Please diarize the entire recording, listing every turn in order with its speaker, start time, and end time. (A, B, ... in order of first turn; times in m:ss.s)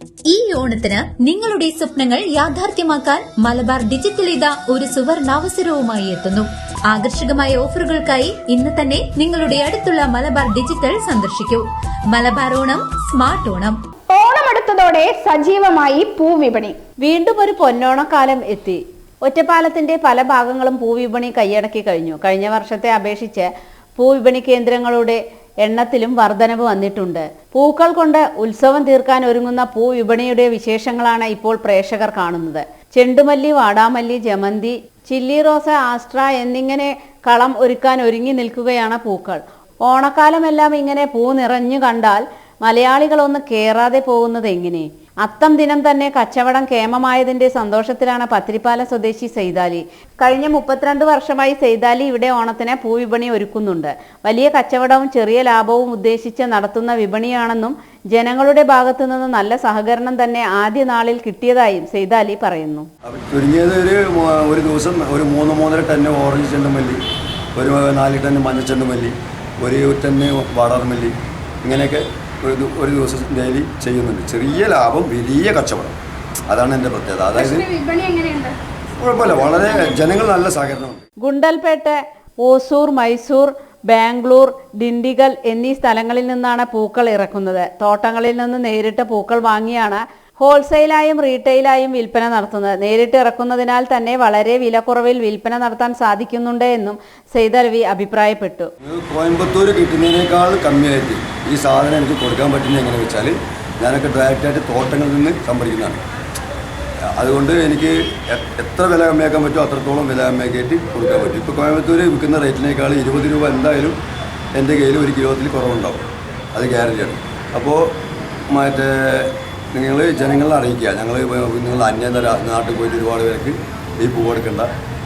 0:00.3-0:13.8 A
0:14.1-0:16.8 B
0:17.0-1:02.9 C
1:03.0-1:07.0 D
1:07.5-1:16.0 D
1:16.5-1:17.7 D
1:17.3-1:18.6 B
1:19.0-1:21.0 D
1:21.2-1:38.7 C
1:38.8-1:46.0 D
1:47.2-1:54.0 D
1:54.6-1:57.9 D
1:58.5-2:04.7 D